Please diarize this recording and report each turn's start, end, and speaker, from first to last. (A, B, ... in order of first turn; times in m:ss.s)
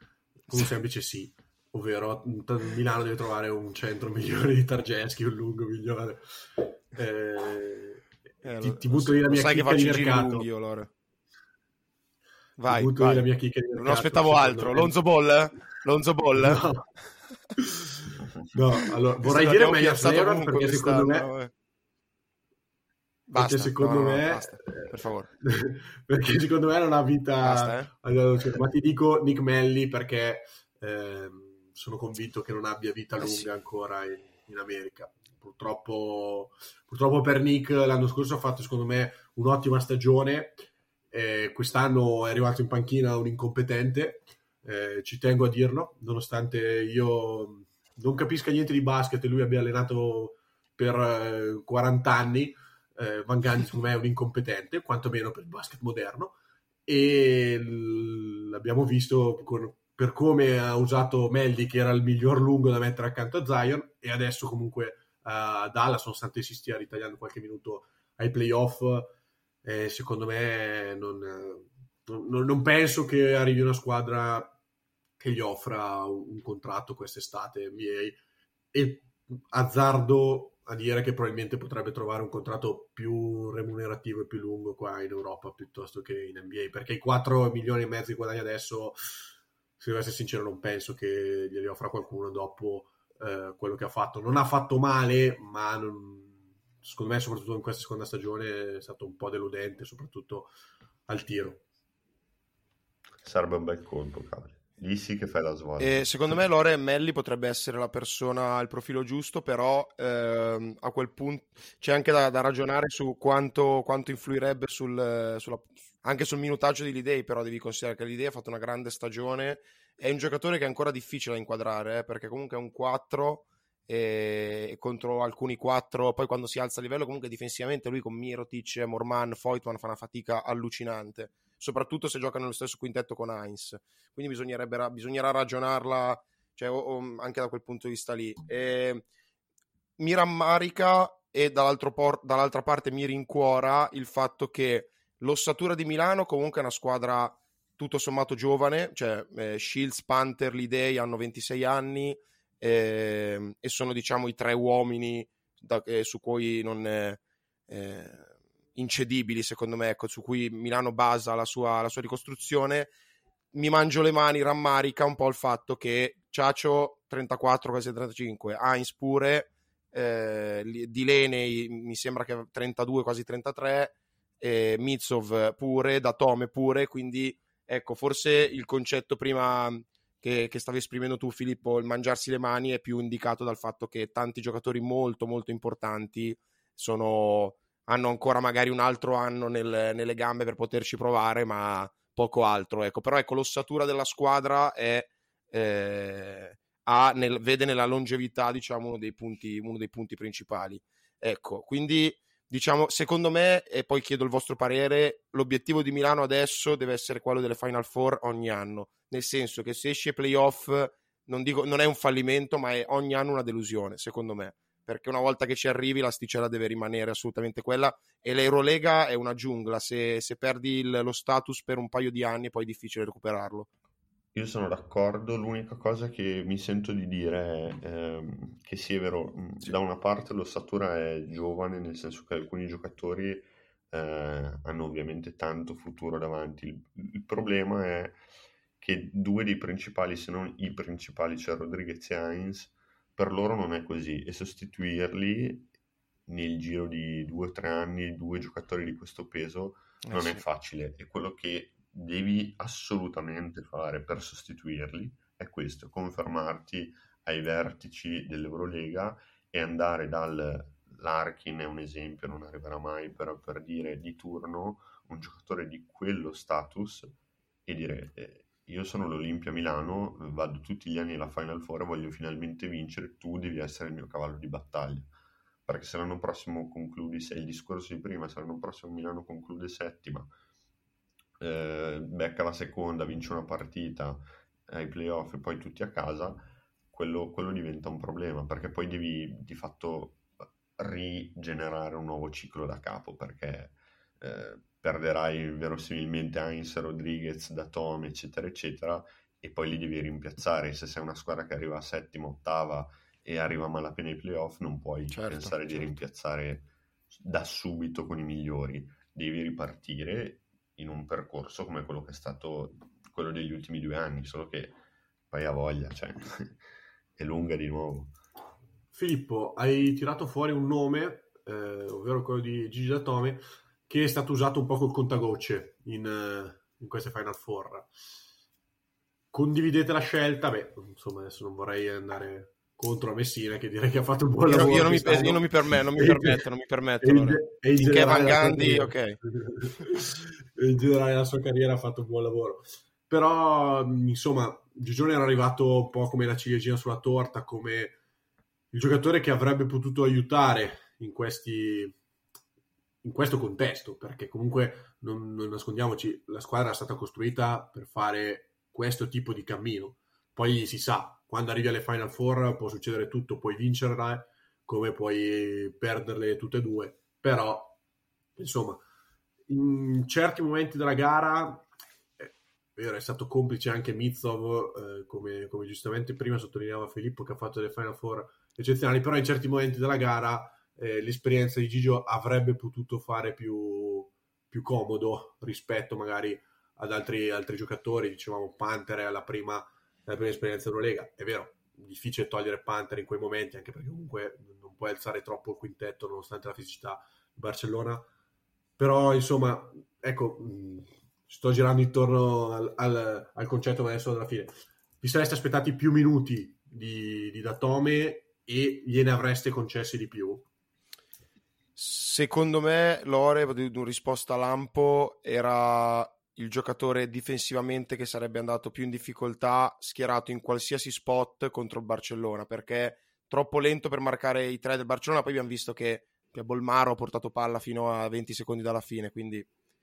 0:00.5-0:08.0 A
0:08.4-0:10.9 B
0:08.6-0:10.5 A
0:12.6-0:16.6 B
0:12.7-0:14.9 A
0:16.4-0:16.8 A
0:17.6-0:21.3 A
0:19.2-0:21.5 B
0:23.3-0:25.3 B
0:23.4-0:24.9 A
0:25.4-0:56.4 A
0:27.4-0:27.9 B
0:33.2-0:33.5 B
0:56.9-1:09.1 A
1:09.6-1:14.6 A
1:15.2-1:18.2 A
1:18.7-1:29.0 A
1:29.8-1:40.5 A
1:41.1-1:41.6 A
1:43.2-1:46.4 C
1:45.8-2:19.0 B
2:20.0-2:42.9 B
2:43.5-3:43.7 B
3:44.3-3:58.2 C
3:58.8-4:05.7 C
4:06.3-4:35.1 C
4:10.0-4:10.4 B
4:35.7-4:40.3 C
4:41.4-4:50.2 C
4:50.8-5:14.8 C
5:05.1-5:06.0 B
5:15.3-5:16.6 C
5:17.2-5:18.2 C
5:18.9-5:27.9 A
5:29.3-5:36.4 A
5:34.5-5:39.2 B
5:37.0-5:48.0 A
5:48.7-5:52.0 A
5:53.0-6:07.8 A
6:08.4-6:08.8 A
6:09.5-6:11.7 A
6:12.2-6:38.0 A
6:38.8-6:50.5 A
6:51.8-7:09.5 B